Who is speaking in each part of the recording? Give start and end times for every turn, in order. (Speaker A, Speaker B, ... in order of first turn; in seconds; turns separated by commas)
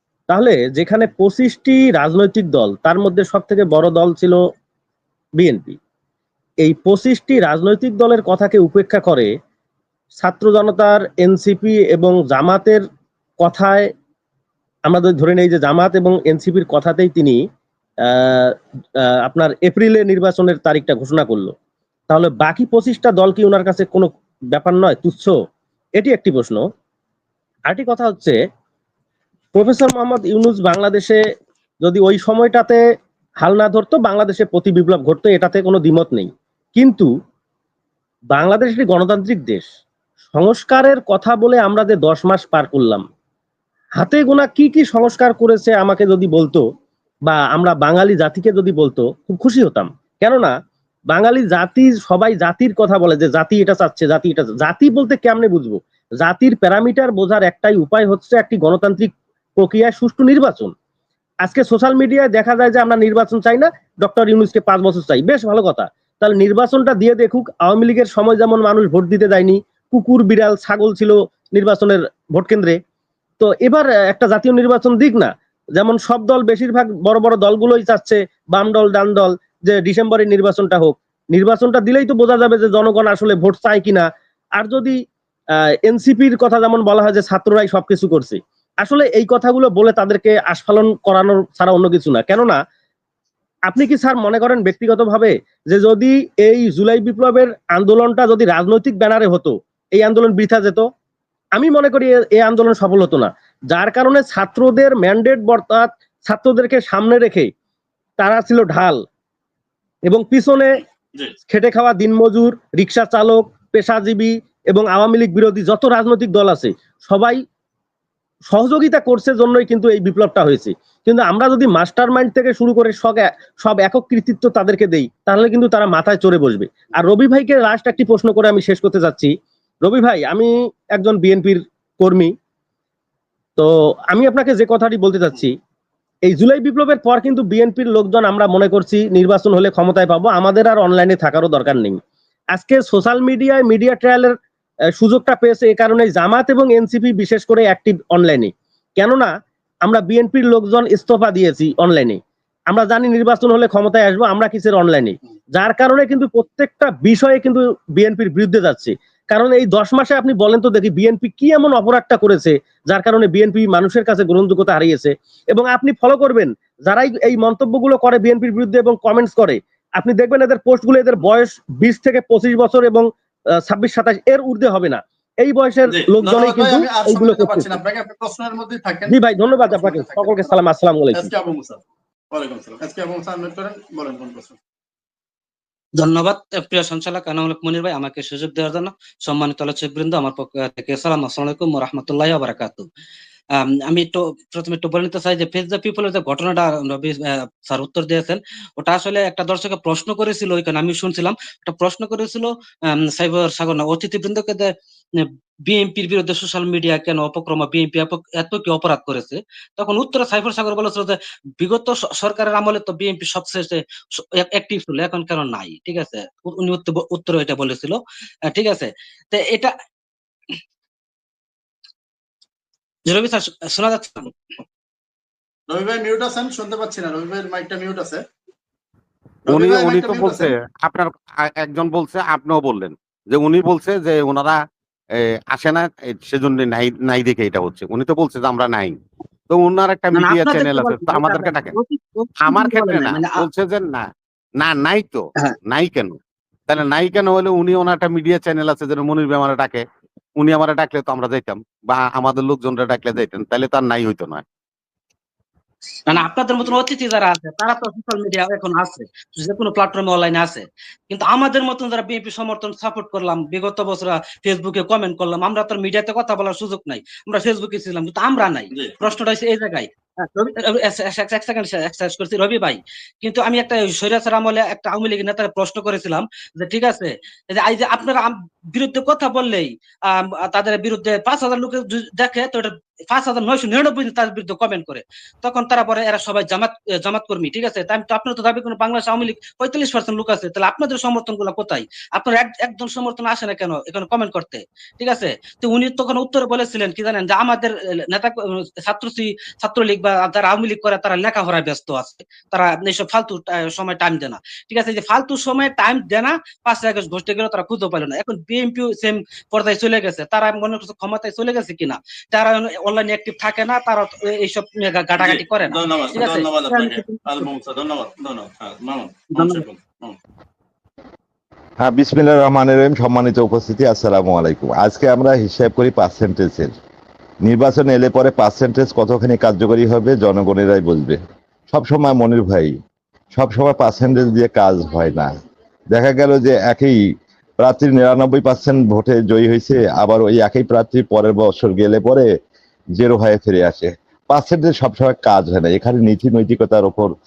Speaker A: 0.3-4.4, Speaker A: 5.4-5.8, Speaker A: 6.6-9.3, Speaker A: 10.2-12.8, Speaker A: 13.4-13.9, Speaker A: 14.9-17.4, Speaker A: 18.1-18.6, Speaker A: 19.2-21.5, Speaker A: 22.1-25.3, Speaker A: 26.0-26.6, Speaker A: 27.7-28.4, Speaker A: 29.5-31.2, Speaker A: 31.8-32.8, Speaker A: 33.4-37.1, Speaker A: 38.3-39.6, Speaker A: 40.3-43.0, Speaker A: 44.0-46.6, Speaker A: 47.3-50.5, Speaker A: 51.1-60.7, Speaker A: 61.4-72.8, Speaker A: 73.4-84.1, Speaker A: 84.6-85.0, Speaker A: 85.8-92.6, Speaker A: 93.7-100.8, Speaker A: 101.5-107.5, Speaker A: 108.2-109.0, Speaker A: 110.1-110.8, Speaker A: 111.5-117.4, Speaker A: 118.5-129.3, Speaker A: 129.8-132.3, Speaker A: 133.6-135.5, Speaker A: 136.3-142.0, Speaker A: 142.5-144.3, Speaker A: 145.0-149.3, Speaker A: 149.8-173.1, Speaker A: 173.7-177.8, Speaker B: 175.8-180.5, Speaker A: 179.1-181.3, Speaker B: 181.1-184.6, Speaker C: 186.0-192.9, Speaker C: 193.5-219.7, Speaker C: 223.1-224.3, Speaker B: 225.7-228.2, Speaker B: 229.4-230.5, Speaker D: 229.5-234.6, Speaker D: 235.2-239.0, Speaker D: 239.5-241.8, Speaker C: 240.1-243.4, Speaker D: 242.4-246.2, Speaker D: 246.7-249.8, Speaker D: 250.4-254.4, Speaker C: 256.1-317.5, Speaker B: 315.2-320.2, Speaker C: 319.3-319.7, Speaker E: 321.8-326.7, Speaker E: 327.4-331.2, Speaker E: 331.7-332.7, Speaker E: 333.3-335.3, Speaker E: 335.9-337.0, Speaker E: 337.6-342.3, Speaker E: 342.9-347.1